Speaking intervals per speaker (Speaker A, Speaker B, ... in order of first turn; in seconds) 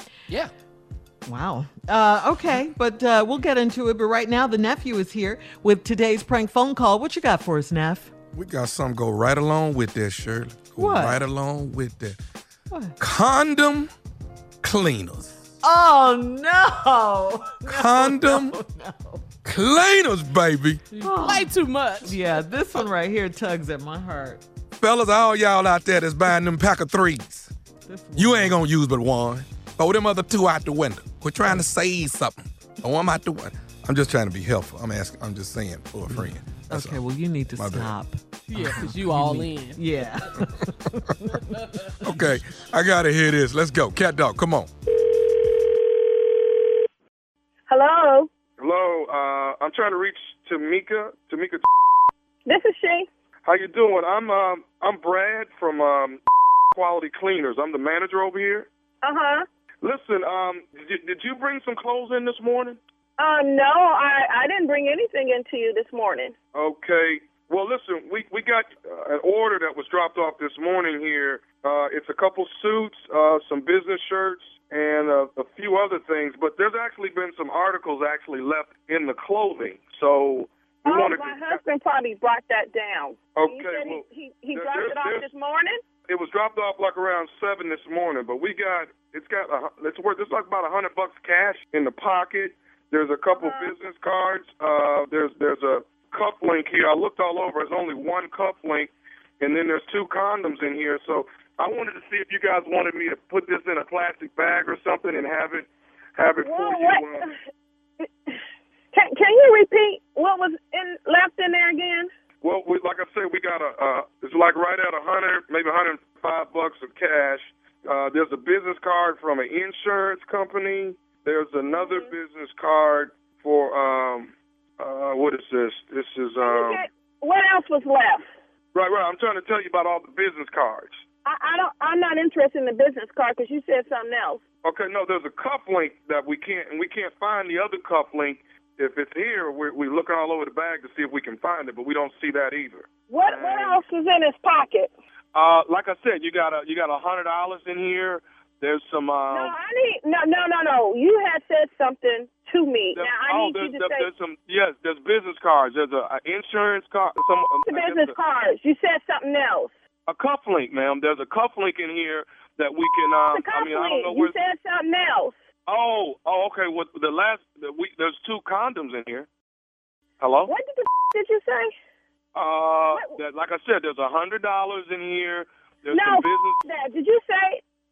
Speaker A: 1.3-8.1, 10.8-11.2, 12.7-13.0, 15.6-19.2, 21.0-21.5, 22.0-24.4, 27.9-28.6, 36.1-42.1
Speaker B: 8.3-12.2, 13.0-13.9, 14.6-15.4, 17.6-18.6, 19.4-20.8, 24.8-27.5, 28.2-37.0, 37.5-37.9, 42.0-44.7
Speaker C: 20.9-22.2, 38.5-39.8
Speaker D: 47.7-48.3, 52.5-53.1, 59.0-59.4, 63.2-66.3, 80.8-85.8, 93.3-93.7, 106.4-107.3, 108.9-112.1, 121.7-122.1, 126.4-128.3, 131.2-134.4, 143.1-144.9, 149.3-154.1, 157.7-159.7, 163.3-165.3, 170.5-171.7, 172.9-173.2, 175.9-177.6
Speaker E: 48.6-51.7, 53.5-56.2, 56.8-58.7, 59.8-62.8, 66.5-81.6, 83.4-85.3, 86.1-107.3, 112.4-126.8, 128.7-131.0, 134.6-143.8, 145.3-149.6, 152.9-158.2, 160.1-164.4, 165.7-169.3, 170.2-170.5, 172.3-176.6